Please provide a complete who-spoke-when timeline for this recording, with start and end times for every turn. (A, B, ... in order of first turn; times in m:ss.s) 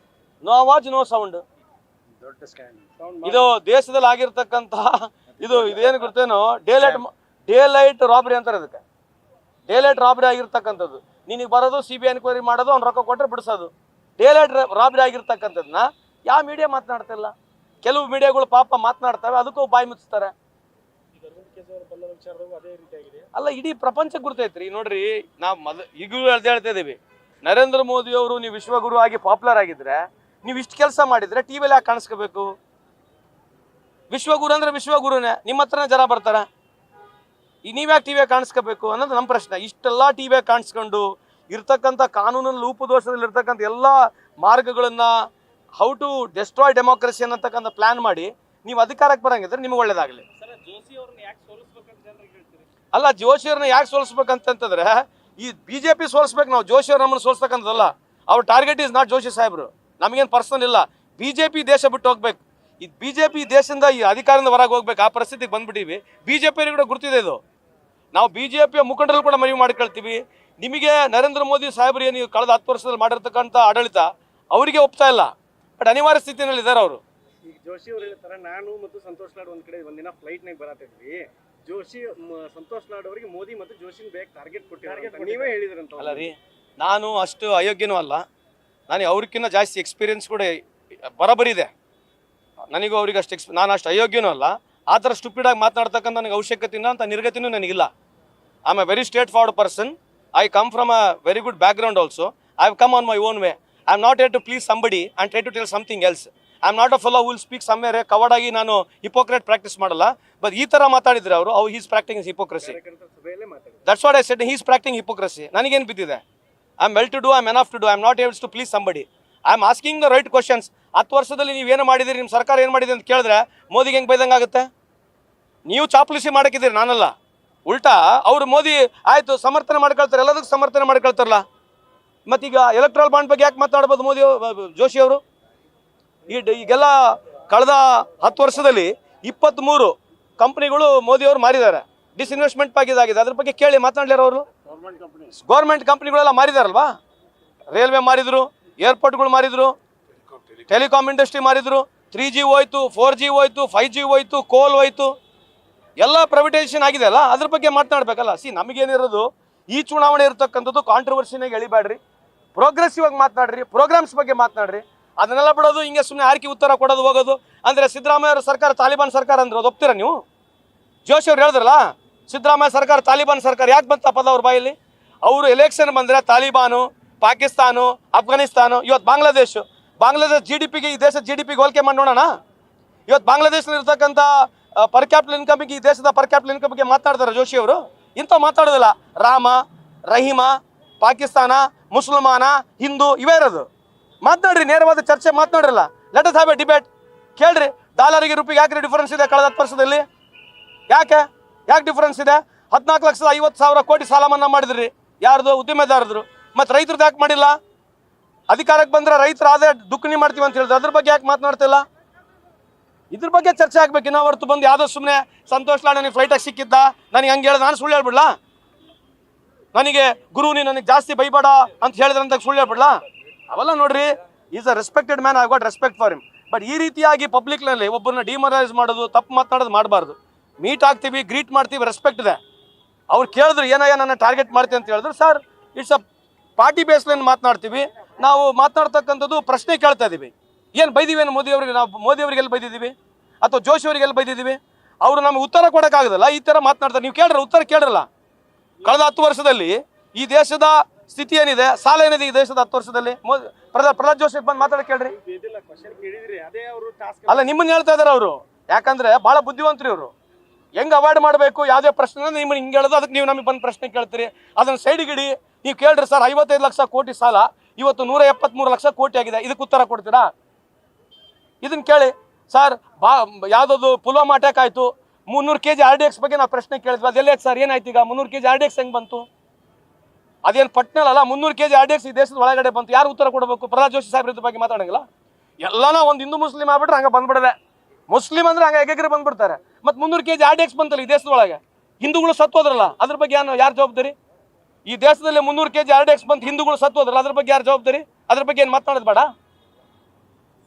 0:00.4-0:01.4 A
0:02.3-0:02.7 B
0:03.0-0:03.5 C
0:03.2-0:08.8 A
0:09.7-0:20.3 A
0:21.1-0:23.3 B
0:23.4-0:32.5 A
0:34.1-0:36.4 A
0:37.6-0:45.1 A
0:45.8-0:50.2 A
0:50.4-0:52.6 B
0:52.9-1:07.4 A
1:08.1-1:17.0 A
1:17.4-1:26.3 C
1:24.8-1:25.6 B
1:26.0-1:28.2 A
1:28.9-1:31.7 A
1:32.7-1:37.9 A
1:38.7-1:52.8 A
1:52.6-1:53.9 C
1:53.9-1:56.2 A
1:56.8-2:04.7 A
2:05.7-2:07.1 A
2:07.7-2:11.4 A
2:12.3-2:15.2 A
2:16.3-2:24.5 A
2:24.8-2:25.2 B
2:25.4-2:26.9 A
2:27.7-2:29.8 A
2:30.7-2:35.1 A
2:36.0-2:42.0 A
2:42.6-2:50.2 A
2:51.1-3:02.3 A
3:03.1-3:13.7 A
3:14.2-3:20.0 A
3:20.9-3:27.6 A
3:28.5-3:31.8 A
3:33.1-3:38.3 A
3:39.7-3:43.0 A
3:43.5-3:52.4 A
3:53.1-3:56.0 A
3:56.6-4:08.1 A
4:08.8-4:15.2 A
4:15.1-4:17.6 B
4:17.3-4:20.1 A
4:20.8-4:30.3 A
4:31.6-4:39.3 A
4:40.4-4:45.0 A
4:45.6-4:47.6 A
4:48.1-4:54.2 A
4:54.9-4:59.3 A